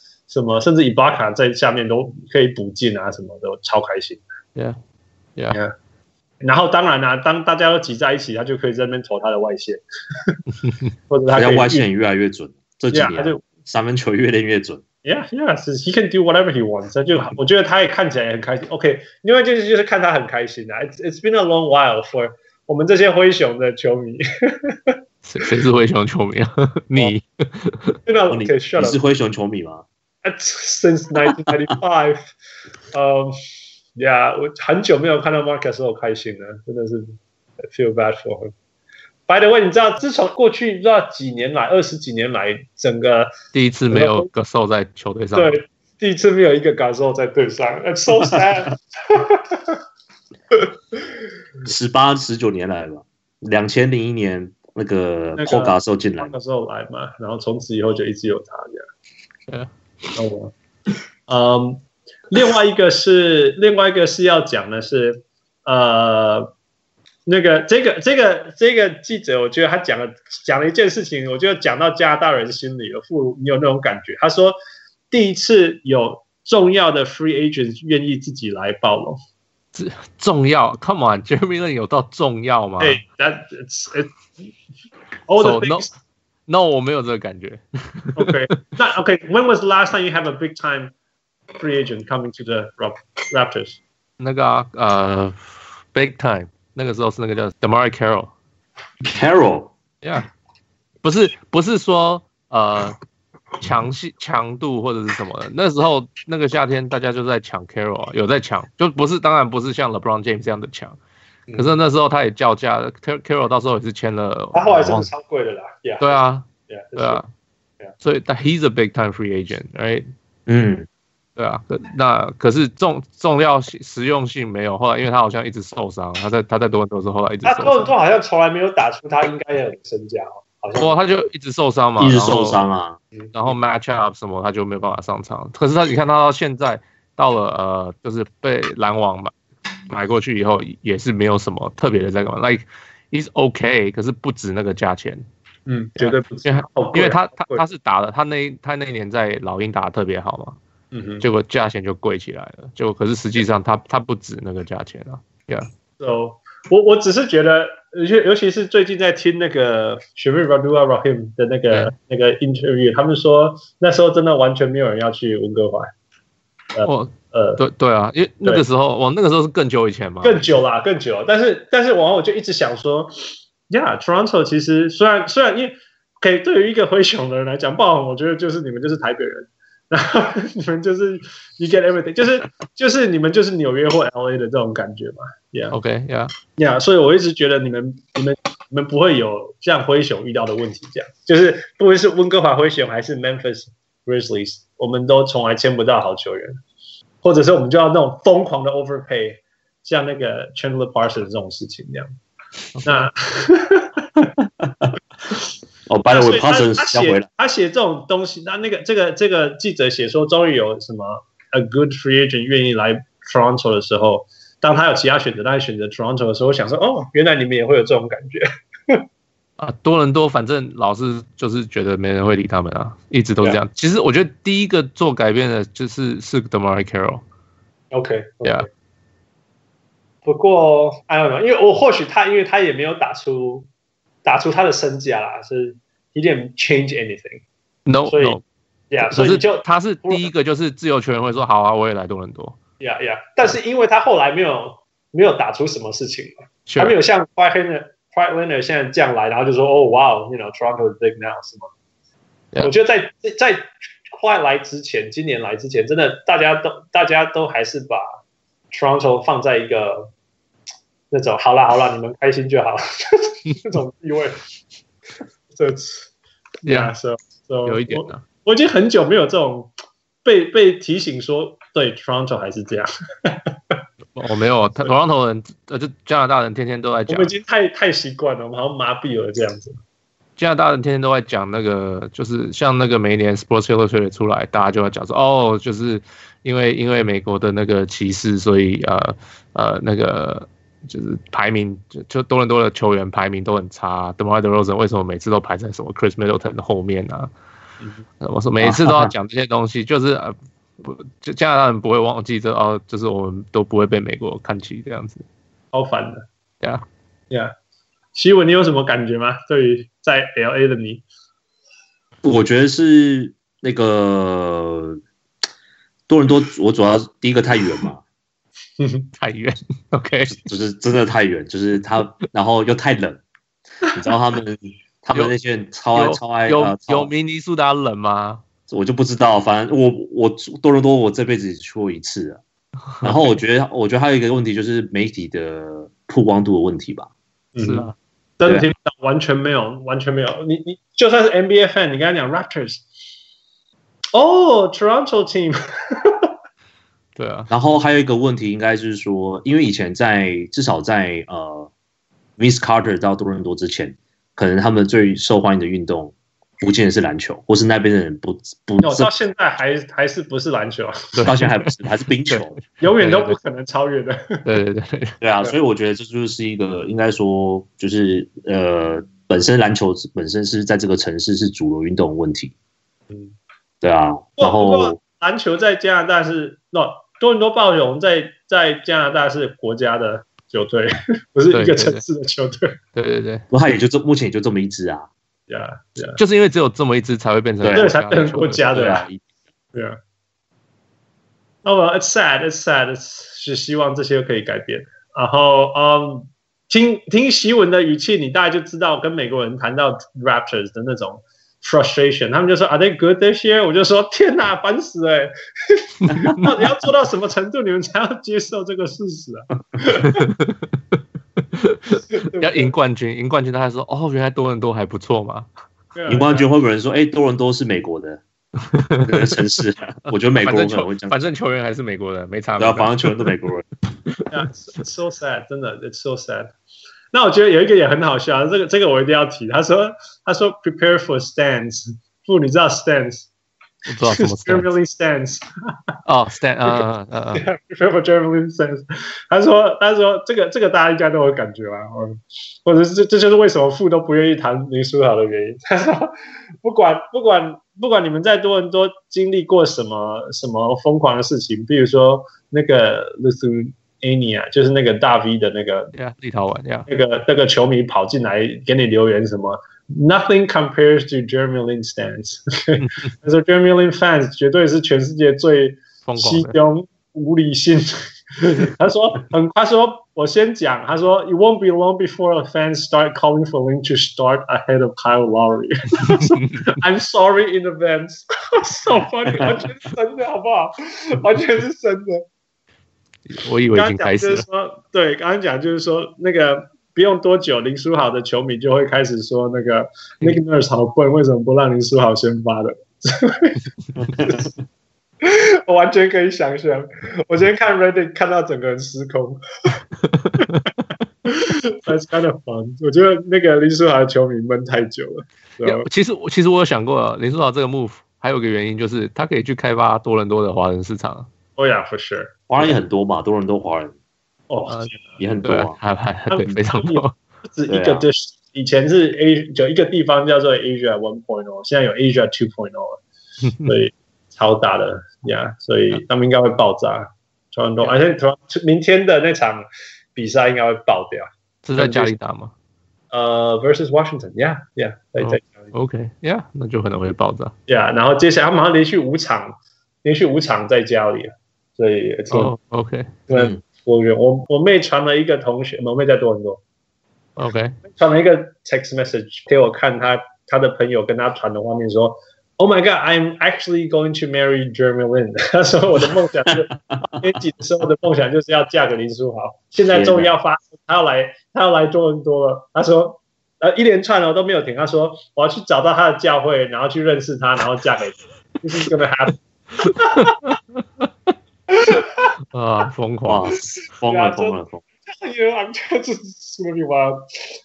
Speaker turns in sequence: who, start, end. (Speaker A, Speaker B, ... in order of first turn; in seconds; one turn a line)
Speaker A: 0.3-4.2
Speaker A: 6.4-10.4
Speaker A: 11.1-11.9
Speaker B: 11.3-14.8
Speaker A: 12.9-13.4
Speaker A: 15.0-25.0
Speaker C: 25.2-28.0
Speaker A: 28.1-29.0
Speaker B: 28.3-29.9
Speaker A: 30.2-32.3
Speaker A: 32.9-33.4
Speaker A: 34.0-38.5
Speaker A: 39.3-43.3
Speaker C: 43.5-45.6
Speaker A: 43.9-44.3
Speaker A: 45.4-49.8
Speaker B: 51.6-56.3
Speaker A: 55.4-58.9
Speaker A: 60.1-60.5
Speaker A: 61.3-66.5
Speaker A: 67.3-74.6
Speaker A: 75.1-79.2
Speaker C: 79.8-83.0
Speaker A: 82.8-84.1
Speaker A: 85.3-85.9
Speaker C: 85.4-85.9
Speaker C: 86.5-88.6
Speaker A: 88.2-90.9
Speaker A: 91.6-93.8
Speaker C: 94.2-98.3
Speaker B: 99.0-99.7
Speaker C: 100.0-100.3
Speaker C: 101.0-103.0
Speaker C: 103.6-111.0
Speaker C: 111.6-115.1
Speaker A: 114.5-117.2
Speaker C: 116.0-117.3
Speaker C: 118.0-120.1
Speaker B: 120.5-120.9
Speaker C: 121.4-127.9
Speaker A: 127.5-131.0
Speaker C: 130.8-132.6
Speaker B: 132.0-133.0
Speaker C: 133.3-139.3
Speaker C: 139.9-145.2
Speaker A: 145.7-147.6
Speaker C: 146.0-150.6
Speaker A: 150.9-151.2
Speaker C: 151.2-155.7
Speaker A: 156.0-165.9
Speaker A: 166.7-167.6
Speaker C: 166.8-170.4
Speaker A: 170.2-173.2
Speaker A: 173.7-185.8
Speaker C: 185.7-186.3
Speaker A: 186.6-196.6
Speaker A: 197.2-202.1
Speaker C: 202.8-203.1
Speaker A: 202.8-204.1
Speaker B: 204.4-204.9
Speaker B: 205.9-207.3
Speaker A: 206.1-219.1
Speaker C: 219.6-227.2
Speaker A: 227.9-228.7
Speaker A: 230.2-233.7
Speaker A: 234.2-237.4
Speaker C: 237.9-238.4
Speaker A: 238.1-238.4
Speaker A: 238.9-240.3
Speaker C: 239.0-242.6
Speaker A: 242.8-251.7
Speaker C: 246.7-246.9
Speaker A: 252.6-258.1
Speaker A: 258.7-260.1
Speaker A: 261.1-264.4
Speaker A: 265.5-266.1
Speaker A: 266.6-269.7
Speaker C: 266.6-266.9
Speaker C: 267.7-268.2
Speaker A: 270.2-273.5
Speaker C: 274.1-277.3
Speaker A: 277.1-279.8
Speaker C: 280.4-297.3
Speaker C: 298.2-305.2
Speaker B: 298.6-299.1
Speaker A: 305.7-306.3
Speaker A: 308.1-311.0
Speaker B: 312.2-315.0
Speaker B: 316.1-318.0
Speaker A: 318.8-319.1
Speaker C: 319.2-320.4
Speaker B: 320.3-323.2
Speaker B: 323.9-327.1
Speaker C: 325.9-328.4
Speaker B: 328.7-332.4
Speaker C: 333.0-333.3
Speaker B: 333.0-337.1
Speaker A: 337.6-342.8
Speaker C: 337.6-337.9
Speaker A: 344.1-346.3
Speaker C: 347.2-347.5
Speaker B: 347.5-351.7
Speaker B: 352.4-359.1
Speaker A: 358.8-361.2
Speaker C: 361.1-361.5
Speaker B: 361.3-362.6
Speaker A: 362.8-364.4
Speaker C: 363.0-363.4
Speaker C: 364.4-365.1
Speaker B: 365.2-372.5
Speaker A: 373.1-373.4
Speaker B: 373.8-375.0
Speaker A: 374.4-382.8
Speaker C: 381.5-382.0
Speaker C: 382.9-383.4
Speaker B: 383.5-385.1
Speaker A: 385.5-386.2
Speaker C: 386.2-389.0
Speaker B: 387.6-387.9
Speaker A: 387.7-389.1
Speaker B: 388.7-389.2
Speaker A: 391.6-410.3
Speaker C: 410.0-410.6
Speaker C: 411.6-415.5
Speaker A: 412.1-412.7
Speaker A: 415.9-416.5
Speaker B: 416.1-418.2
Speaker C: 418.7-419.4
Speaker B: 419.0-421.2
Speaker C: 420.4-423.3
Speaker B: 422.6-423.6
Speaker A: 424.3-426.5
Speaker A: 427.1-433.3
Speaker C: 433.9-434.7
Speaker A: 434.0-435.4
Speaker C: 436.1-437.4
Speaker A: 437.4-455.9
Speaker C: 455.9-456.9
Speaker A: 456.9-482.2
Speaker C: 462.8-463.1
Speaker C: 466.1-466.6
Speaker C: 476.0-476.7
Speaker C: 483.3-484.4
Speaker A: 483.7-493.6
Speaker B: 494.0-494.5
Speaker A: 494.2-494.5
Speaker A: 495.2-499.8
Speaker A: 501.2-505.9
Speaker C: 505.6-511.3
Speaker A: 511.6-512.3
Speaker B: 512.5-513.9
Speaker A: 514.5-515.0
Speaker B: 515.2-515.8
Speaker C: 515.4-517.1
Speaker A: 516.3-523.0
Speaker B: 517.7-518.1
Speaker A: 523.6-532.1
Speaker C: 531.6-532.5
Speaker A: 533.1-535.7
Speaker C: 535.2-537.5
Speaker A: 537.7-542.5
Speaker C: 542.3-543.2
Speaker A: 543.3-546.6
Speaker B: 543.3-543.6
Speaker C: 547.4-547.8
Speaker A: 547.8-570.3
Speaker B: 559.9-560.3
Speaker A: 571.7-572.3
Speaker C: 572.5-573.5
Speaker B: 573.3-574.8
Speaker A: 574.1-577.2